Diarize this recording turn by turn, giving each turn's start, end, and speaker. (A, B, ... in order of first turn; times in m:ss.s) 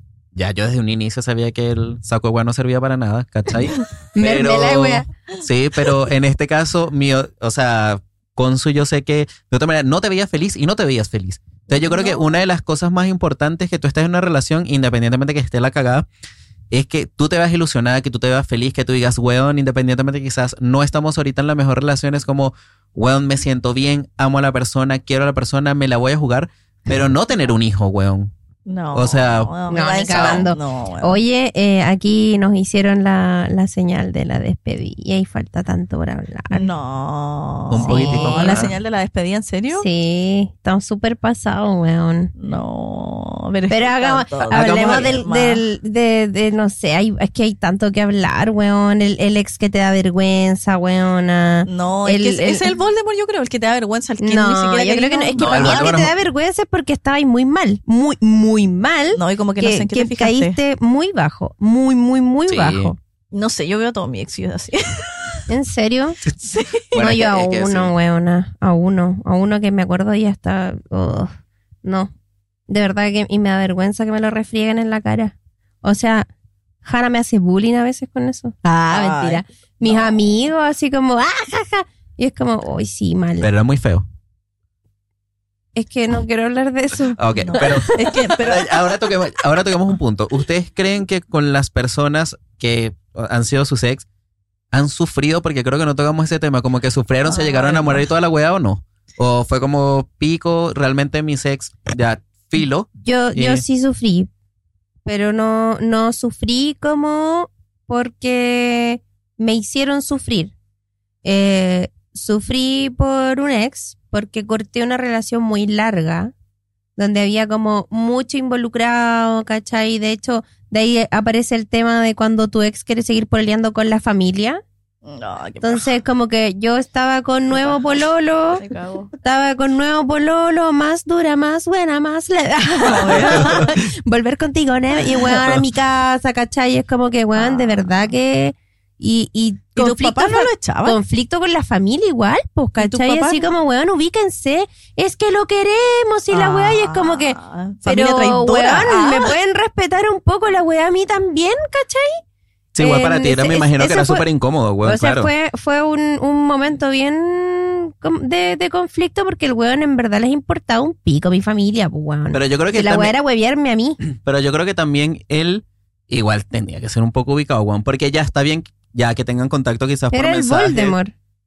0:00.3-0:16.1 A
0:04.2-0:05.1 B
0:16.7-0:28.3 A
0:28.7-0:31.2 C
0:28.9-0:29.5 A
0:29.7-0:36.7 B
0:30.1-0:30.4 A
0:36.5-0:39.8 C
0:37.7-0:38.7 A
0:37.8-0:38.6 B
0:39.8-0:42.3 B
0:42.4-0:45.6 C
0:43.7-0:52.7 B
0:44.5-0:45.2 A
0:51.6-0:55.9 C
0:54.2-1:03.0 B
0:55.4-0:56.1 A
0:59.1-1:00.6 C
1:02.5-1:02.9 A
1:03.3-1:05.4 C
1:05.5-1:06.2 B
1:06.4-1:06.9 C
1:06.9-1:07.9 A
1:06.9-1:12.1 B
1:12.7-1:16.3 B
1:16.8-1:23.5 B
1:18.8-1:20.2 C
1:23.4-1:24.0 A
1:25.8-1:28.1 B
1:27.1-1:34.0 A
1:27.4-1:29.0 C
1:34.7-1:43.6 A
1:37.2-1:38.1 C
1:43.0-1:44.3 B
1:45.0-1:50.5 B
1:51.2-1:56.3 B
1:57.0-2:04.6 B
2:05.0-2:05.9 C
2:05.6-2:08.6 B
2:08.6-2:09.1 C
2:09.2-2:32.2 B
2:12.8-2:13.6 C
2:13.4-2:13.6 A
2:17.4-2:18.1 C
2:19.8-2:21.0 C
2:22.8-2:23.4 C
2:26.3-2:29.3 C
2:32.7-2:35.3 A
2:32.8-2:34.2 B
2:34.8-2:44.0 B
2:42.3-2:43.1 A
2:44.0-2:51.0 A
2:50.1-2:51.1 B